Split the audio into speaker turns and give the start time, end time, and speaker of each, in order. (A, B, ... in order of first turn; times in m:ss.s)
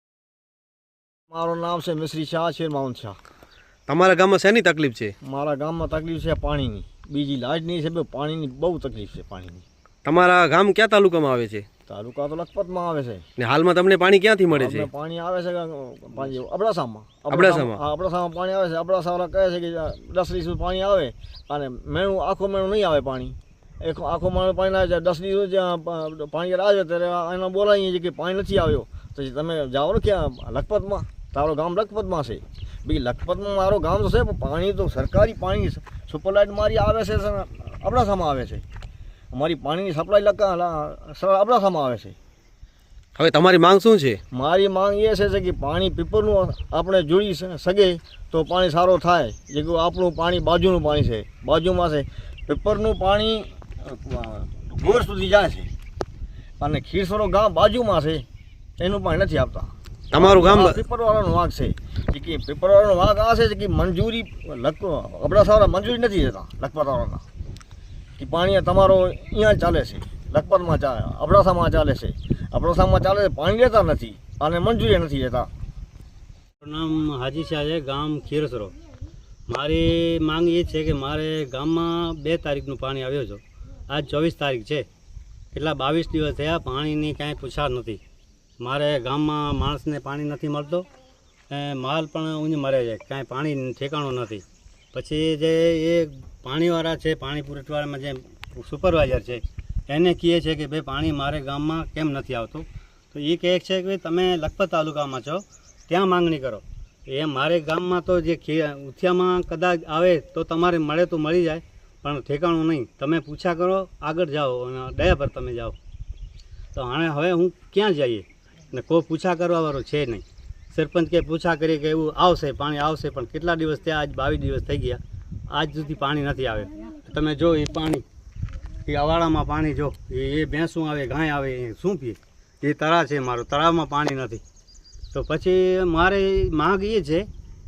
0:01.3-0:03.2 A
0:03.9-0:05.1 B
0:05.2-0:09.6 A
0:10.0-0:11.6 B
0:11.9-0:13.2 A
0:13.4-0:14.9 B
0:14.5-0:38.6 A
0:17.3-0:17.8 B
0:39.3-0:42.2 A
0:43.2-0:44.2 B
0:44.3-0:55.7 A
0:56.6-0:58.2 A
0:58.8-1:07.2 A
1:00.1-1:00.8 B
1:08.2-1:15.5 A
1:16.6-1:18.7 C
1:19.5-1:24.8 C
1:25.5-1:28.0 C
1:28.6-1:30.9 C
1:31.5-1:55.8 C
1:56.7-2:08.0 C
2:08.8-2:14.4 C
2:15.1-2:17.3 C